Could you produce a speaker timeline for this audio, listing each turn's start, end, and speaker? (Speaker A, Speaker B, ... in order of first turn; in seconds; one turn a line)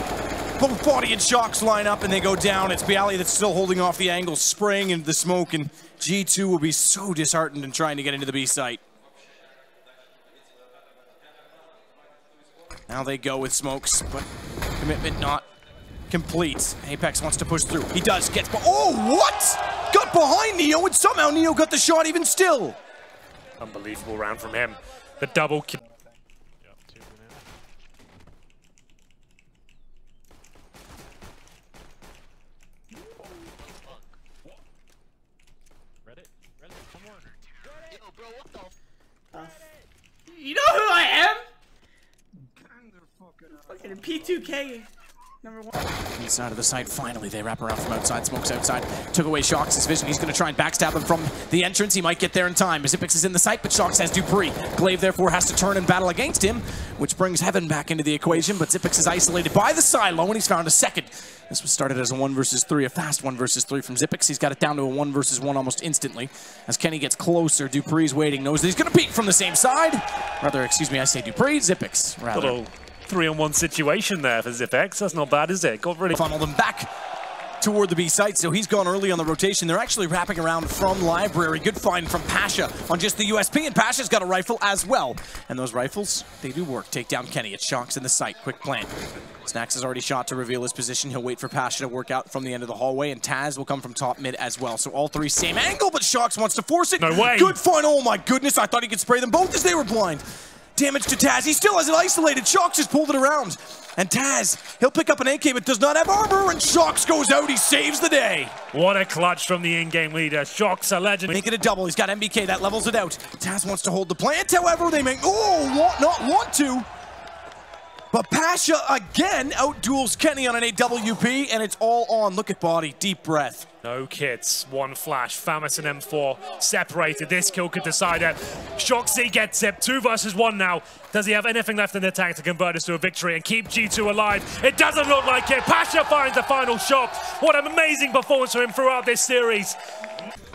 Speaker A: 0.6-8.8
Speaker A: 12.9-14.3
Speaker A: 14.8-15.5
Speaker A: 16.1-22.8
Speaker B: 23.6-25.8
Speaker C: 40.3-41.4
Speaker C: 43.6-44.9
Speaker C: 45.4-45.8
Speaker A: 46.2-72.6
Speaker B: 72.3-76.2
Speaker A: 76.1-76.9
Speaker A: 77.6-88.9
Speaker A: 89.5-100.2
Speaker B: 97.0-97.6
Speaker A: 100.8-108.5
Speaker B: 108.7-111.4
Speaker A: 111.3-116.8
Speaker A: 118.1-123.7
Speaker B: 123.8-139.8